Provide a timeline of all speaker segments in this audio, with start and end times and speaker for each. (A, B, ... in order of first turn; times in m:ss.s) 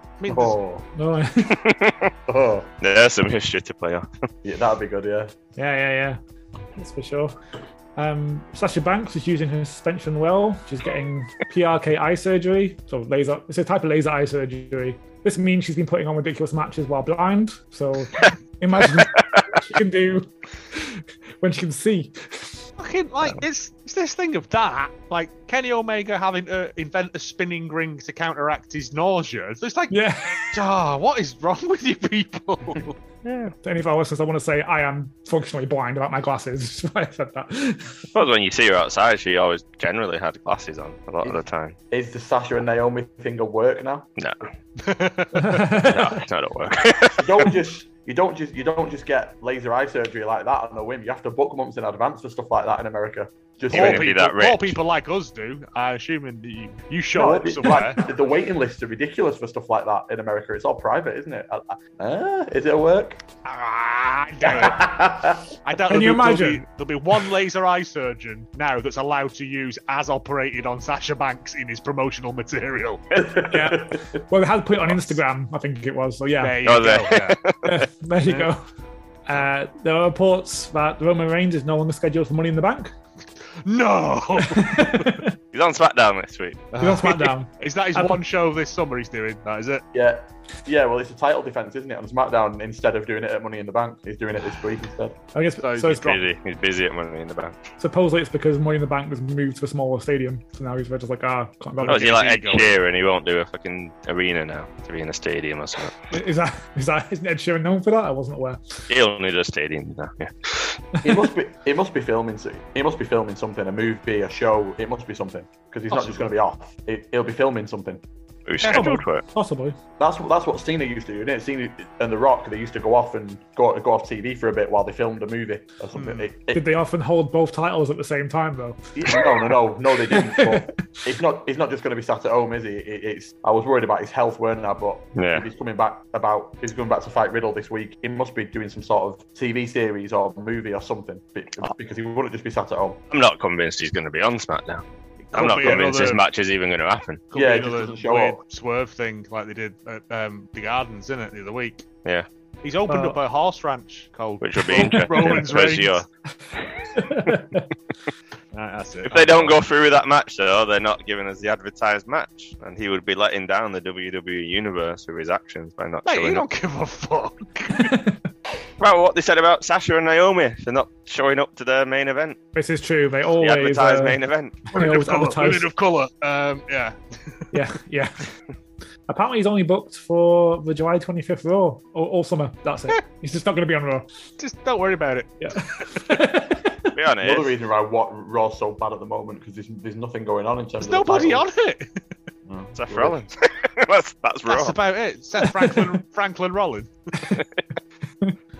0:00.2-0:00.6 A
0:00.3-0:00.8 B
0:00.9-0:01.6 C
0:01.5-0:02.1 D
0:02.3-0:02.7 B
0:02.8-0:04.1 D
0:04.4-0:05.3 B
0:05.6-0:06.2 C
0:06.8-0:07.4 C
0:08.0-0:22.6 C
0:19.0-0:19.4 D
0:22.8-0:33.0 A
0:29.9-0:30.5 C
0:33.2-0:33.5 D
0:33.6-0:38.1 C
0:38.1-0:41.8 D
0:41.2-0:44.1 B
0:44.2-0:44.4 D
0:44.8-0:45.6 A
0:45.3-0:46.1 C
0:45.7-0:47.5 D
0:47.1-0:54.1 B
0:53.7-0:54.8 D
0:53.7-0:58.0 A
0:57.1-1:03.2 B
1:03.4-1:04.9 A
1:04.4-1:05.5 B
1:05.6-1:13.0 A
1:05.9-1:06.6 C
1:13.2-1:14.1 B
1:13.4-1:16.6 C
1:16.4-1:17.4 A
1:16.6-1:17.8 D
1:17.6-1:18.6 C
1:19.2-1:22.9 C
1:23.6-1:25.2 A
1:24.4-1:25.3 C
1:25.5-1:26.7 D
1:26.7-1:29.8 A
1:26.8-1:28.2 C
1:29.9-1:35.2 B
1:35.3-1:36.2 C
1:35.6-1:36.2 A
1:35.9-1:37.6 D
1:37.8-1:42.1 C
1:41.8-1:42.8 A
1:41.8-1:46.0 D
1:46.1-1:48.9 C
1:48.9-1:50.8 D
1:51.0-1:58.0 B
1:55.9-1:56.2 A
1:58.4-1:59.2 D
1:58.6-1:59.8 C
2:00.0-2:06.6 B
2:05.9-2:06.3 A
2:06.5-2:09.3 C
2:08.9-2:23.0 B
2:10.1-2:10.7 C
2:15.2-2:15.5 D
2:23.1-2:24.8 D
2:25.3-2:26.2 A
2:25.3-2:27.2 D
2:27.3-2:31.8 A
2:27.3-2:28.4 B
2:32.6-2:36.0 A
2:32.9-2:33.2 C
2:34.4-2:36.0 D
2:36.8-2:37.4 D
2:36.9-2:37.6 C
2:38.5-2:39.6 A
2:39.0-2:46.4 D
2:46.0-2:48.0 A
2:47.7-2:48.2 C
2:48.8-2:52.4 D
2:52.5-2:54.2 C
2:53.4-2:54.7 D
2:54.7-2:55.7 C
2:54.7-2:57.4 A
2:57.5-2:58.3 C
2:59.1-3:04.0 C
3:04.4-3:05.9 A
3:05.4-3:06.9 C
3:06.9-3:07.5 D
3:07.2-3:11.4 B
3:10.8-3:12.0 A
3:12.4-3:13.2 B
3:12.7-3:14.8 D
3:14.4-3:17.2 A
3:15.4-3:15.8 C